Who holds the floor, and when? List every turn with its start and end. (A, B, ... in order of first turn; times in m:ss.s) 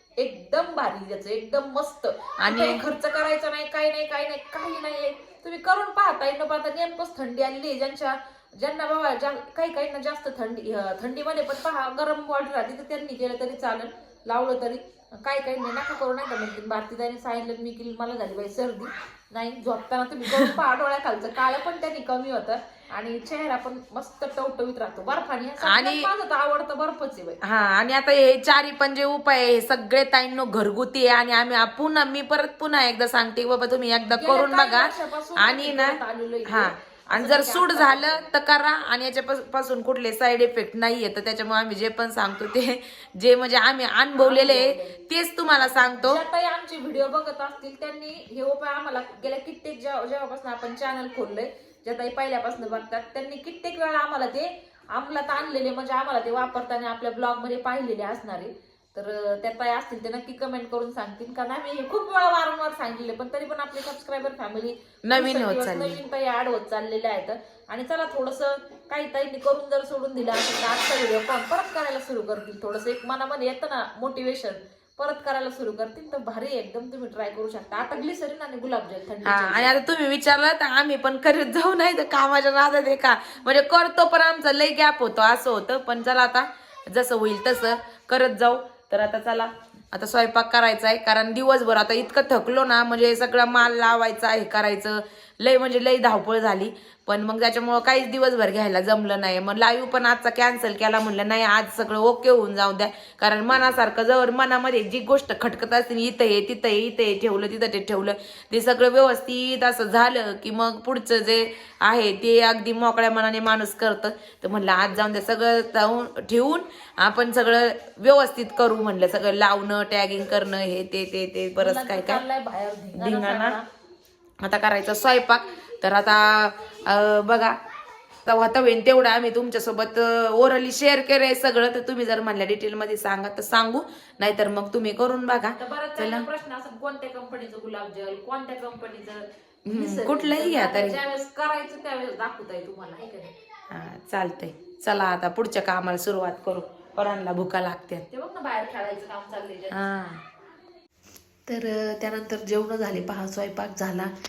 0:00.2-0:27.4 A
0:02.4-0:02.8 B
0:25.6-0:26.1 B
0:27.4-0:46.2 B
0:34.2-0:38.2 A
0:44.2-0:45.0 A
0:45.6-1:19.8 A
1:05.1-1:06.0 B
1:19.2-2:02.2 B
2:01.6-2:03.6 A
2:03.0-2:03.6 B
2:04.4-2:07.6 B
2:08.3-2:16.3 B
2:15.6-2:23.3 A
2:19.7-2:21.0 B
2:23.7-2:28.1 B
2:28.1-2:29.8 A
2:29.7-2:30.2 B
2:31.5-2:34.1 C